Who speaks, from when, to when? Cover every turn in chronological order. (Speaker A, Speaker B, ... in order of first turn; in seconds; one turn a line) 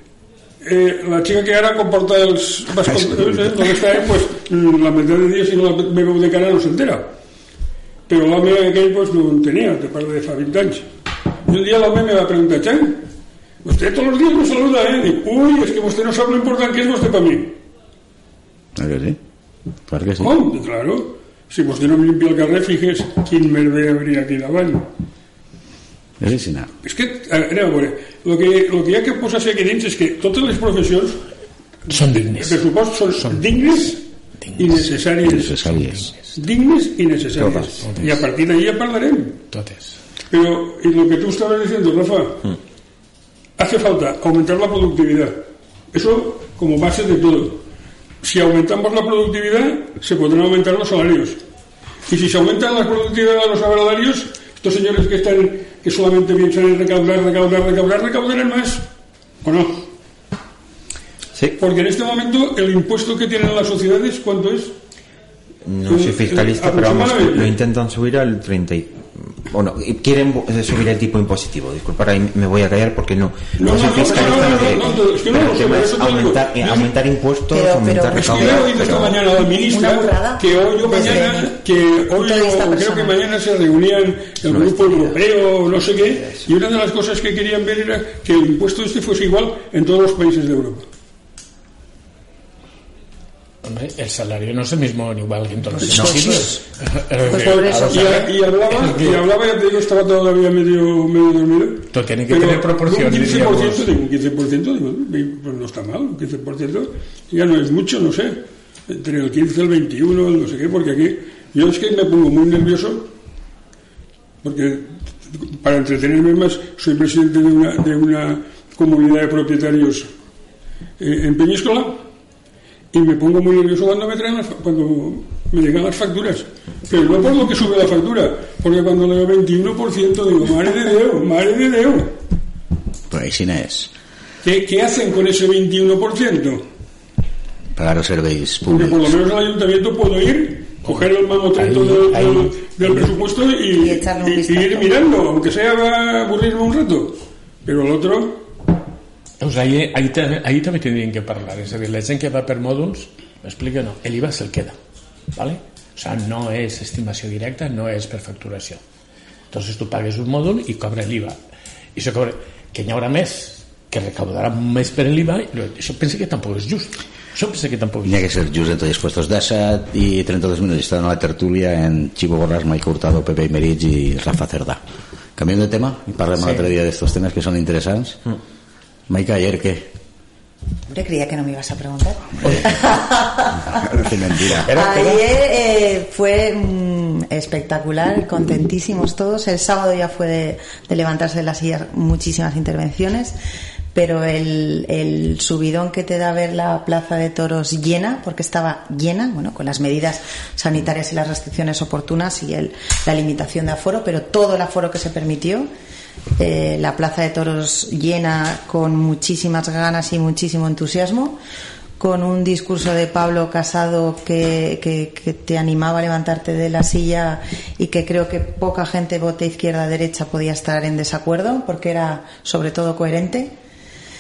Speaker A: 0.6-7.1
Speaker B: 2.9-3.4
Speaker A: 8.1-10.9
Speaker A: 11.5-13.1
Speaker A: 13.6-17.6
Speaker B: 18.8-19.2
Speaker B: 19.9-20.4
Speaker A: 20.2-24.9
Speaker B: 26.2-26.7
Speaker A: 26.8-31.2
Speaker A: 31.9-34.0
Speaker C: 31.9-33.5
Speaker C: 34.4-34.8
Speaker A: 34.6-35.6
Speaker B: 35.2-36.1
Speaker C: 35.7-36.3
Speaker A: 36.4-39.4
Speaker D: 37.4-37.8
Speaker C: 37.9-38.2
Speaker C: 39.5-40.0
Speaker A: 40.3-42.6
Speaker A: 43.6-47.6
Speaker A: 48.2-51.4
Speaker A: 52.1-58.9
Speaker A: 59.4-59.9
Speaker A: 61.6-64.7
Speaker D: 65.6-79.2
Speaker A: 65.9-67.6
Speaker A: 73.6-76.9
Speaker E: 74.0-74.9
Speaker E: 77.5-81.6
Speaker A: 78.1-90.9
Speaker E: 82.1-83.2
Speaker D: 84.5-85.2
Speaker D: 86.1-86.5
Speaker C: 93.6-99.2
Speaker E: 95.8-96.6
Speaker E: 97.3-98.3
Speaker A: 97.3-113.1
Speaker C: 101.9-103.9
Speaker A: 114.4-120.1
Speaker A: 121.0-122.0
Speaker A: 122.9-132.2
Speaker B: 133.1-133.9
Speaker A: 134.4-136.7
Speaker B: 137.8-139.1
Speaker A: 138.7-148.4
Speaker C: 141.6-143.1
Speaker E: 143.7-144.9
Speaker C: 149.4-154.8
Speaker C: 155.4-158.8
Speaker C: 159.5-161.4
Speaker C: 161.9-168.2
Speaker B: 168.0-174.8
Speaker B: 175.4-178.2
Speaker C: 176.4-176.7
Speaker B: 179.1-179.9
Speaker E: 180.9-183.9
Speaker B: 182.4-182.8
Speaker C: 182.4-182.7
Speaker B: 183.6-184.7
Speaker C: 184.5-185.2
Speaker E: 184.7-193.4
Speaker E: 193.9-205.7
Speaker E: 206.4-211.4
Speaker E: 212.0-223.5